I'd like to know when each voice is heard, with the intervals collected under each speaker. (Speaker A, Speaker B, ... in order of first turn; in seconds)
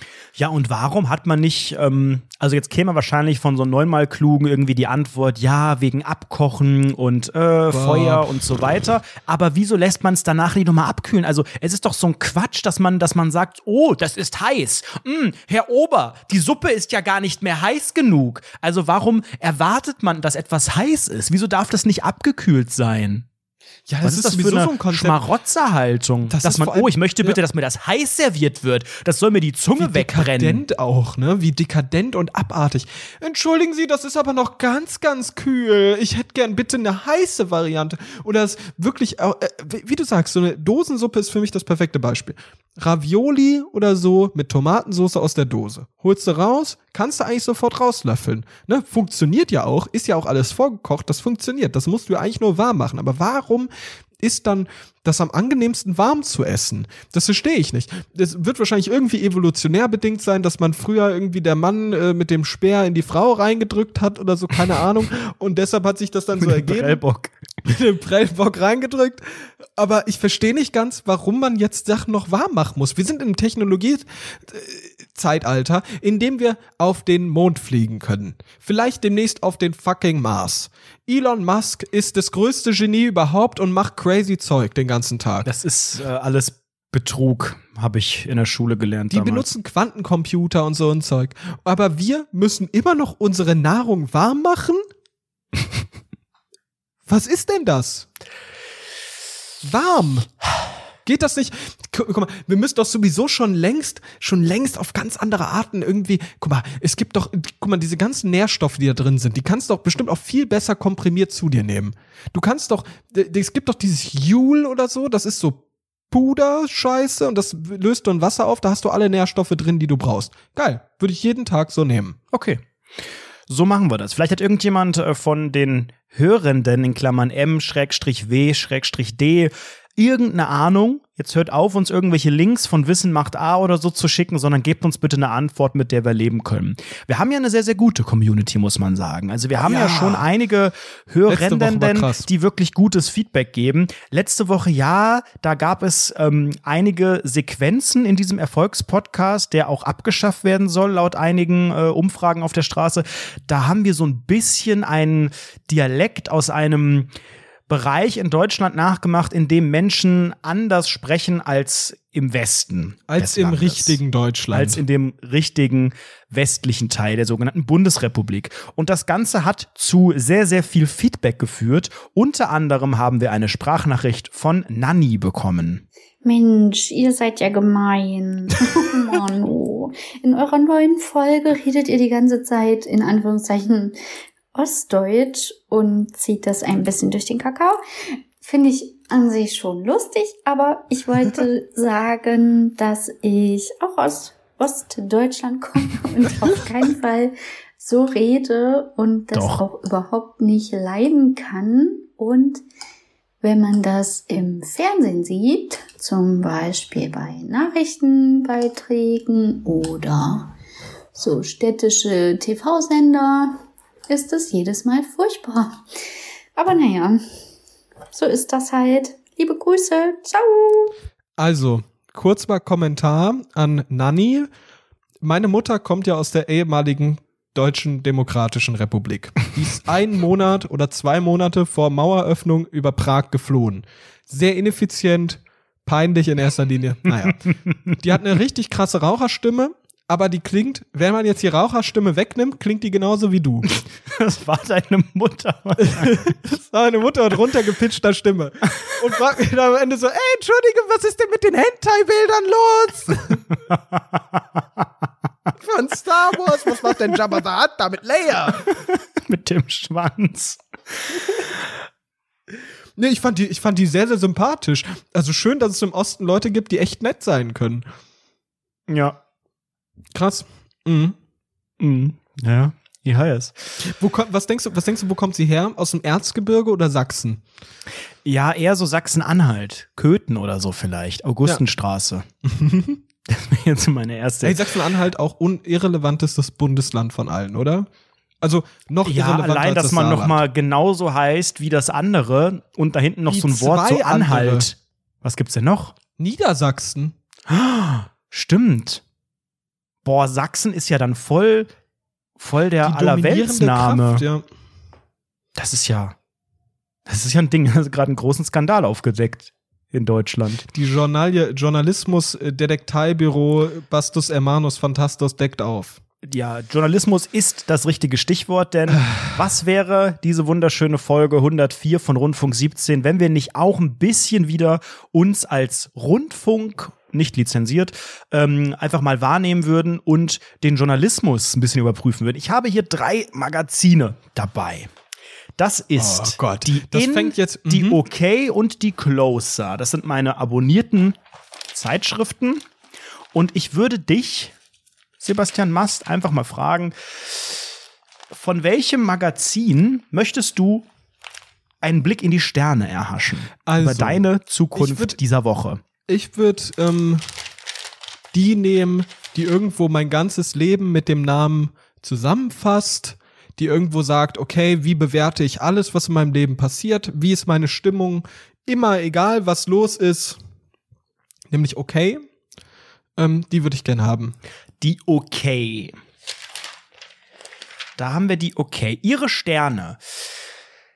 Speaker A: 0.3-23.3, 24.0-30.6, 66.4-67.4, 85.4-89.5, 122.3-122.6, 123.5-157.1, 157.7-164.0, 164.5-175.8, 199.3-199.6, 243.7-246.2, 253.7-254.9, 258.7-260.6, 268.9-269.2, 271.8-273.8, 278.2-282.2, 283.3-284.6, 289.0-295.9, 297.5-299.0, 300.0-301.7, 302.4-304.2, 305.6-306.1, 307.1-310.7, 316.2-334.9, 335.6-341.2, 341.7-342.6, 343.3-344.5, 345.2-347.6, 348.3-350.9, 351.8-355.8, 374.8-375.9, 378.0-380.0
Speaker B: 7.7-8.3, 23.9-25.2, 26.3-27.4, 29.8-53.7, 54.2-67.0, 67.6-85.5, 89.1-94.8, 97.1-98.1, 99.6-100.3, 101.0-122.2, 139.6-140.2, 141.3-142.3, 163.1-164.8, 221.4-224.5, 225.2-243.7, 245.8-253.5, 255.6-258.8, 263.0-267.8, 270.1-271.1, 273.8-277.4, 282.4-283.0, 284.4-287.9, 288.4-290.4, 293.3-294.7, 296.2-297.1, 302.8-304.4, 310.7-316.0, 336.0-338.0, 353.6-354.2, 354.7-355.2, 356.1-357.2, 358.3-370.4, 371.5-372.2, 373.2-374.4
Speaker C: 176.2-184.0, 184.5-187.8, 188.4-202.6, 203.4-210.5, 211.1-215.8, 216.6-217.2, 218.1-220.9